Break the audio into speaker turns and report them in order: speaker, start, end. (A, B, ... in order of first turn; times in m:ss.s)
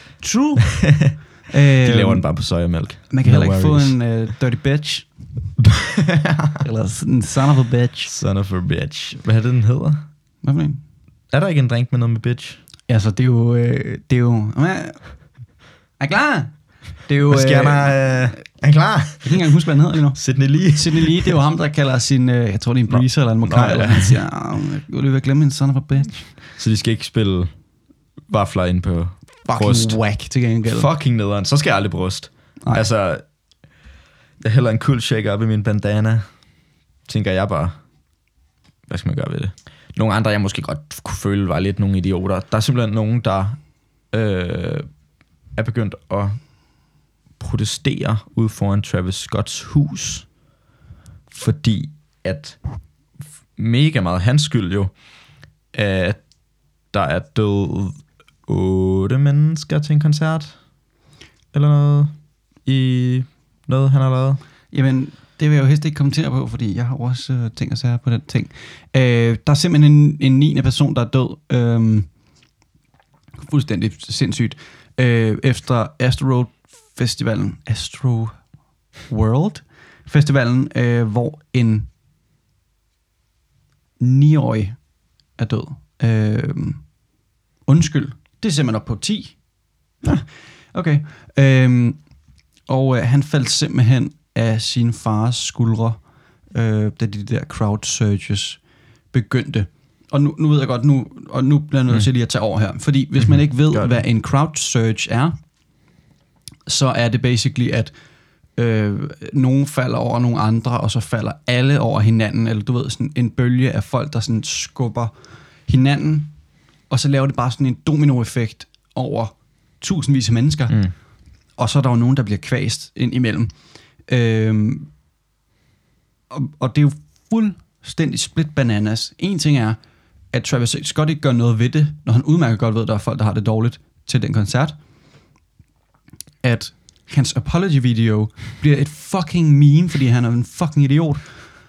0:00.2-0:00.9 A
0:00.7-0:01.2 B
0:01.5-0:02.2 A
0:01.8-0:04.0 B
0:03.1-0:05.1 A
0:05.6-0:06.6 B
0:06.6-0:08.1 A
0:08.0-0:10.0 B
0:10.4-0:10.8 A
0:11.3-0:12.6 B
0:12.9-0:15.0 A
0:16.0-0:18.4 A
0:17.3-0:19.4 B
0:19.2-0:26.3 A
0:20.1-0:21.3 B
0:22.9-0:24.2 B
0:26.5-0:27.5 B
0:28.3-0:30.0 B
0:29.4-0:30.9 A
0:30.6-0:33.2 B
0:34.4-0:36.2 B
0:37.1-0:37.7 B
0:38.9-0:43.6 B
0:44.1-0:44.9 B
0:45.5-0:46.4 B
0:47.4-0:50.3 B
0:51.3-0:52.6 B
0:53.6-0:54.9 B
0:55.7-0:56.2 B
0:56.9-1:00.5 B
1:01.5-1:02.1 B
1:02.6-1:04.4 B
1:04.7-1:12.1 A
1:13.4-1:18.4 A
1:19.1-1:21.9 A
1:24.0-1:24.8 A
1:25.4-1:26.8 A
1:27.7-1:29.4 A
1:30.0-1:32.0 A
1:32.7-1:36.0 A
1:36.5-1:38.6 A
1:39.1-1:45.4 A
1:43.2-1:44.0 B
1:46.7-1:47.9 A
1:48.6-1:55.1 A
1:55.7-1:56.3 A
1:56.9-2:00.8 A
2:01.6-2:03.5 A
2:04.1-2:04.9 A
2:06.3-2:09.8 A
2:10.3-2:14.8 A
2:16.4-2:21.3 A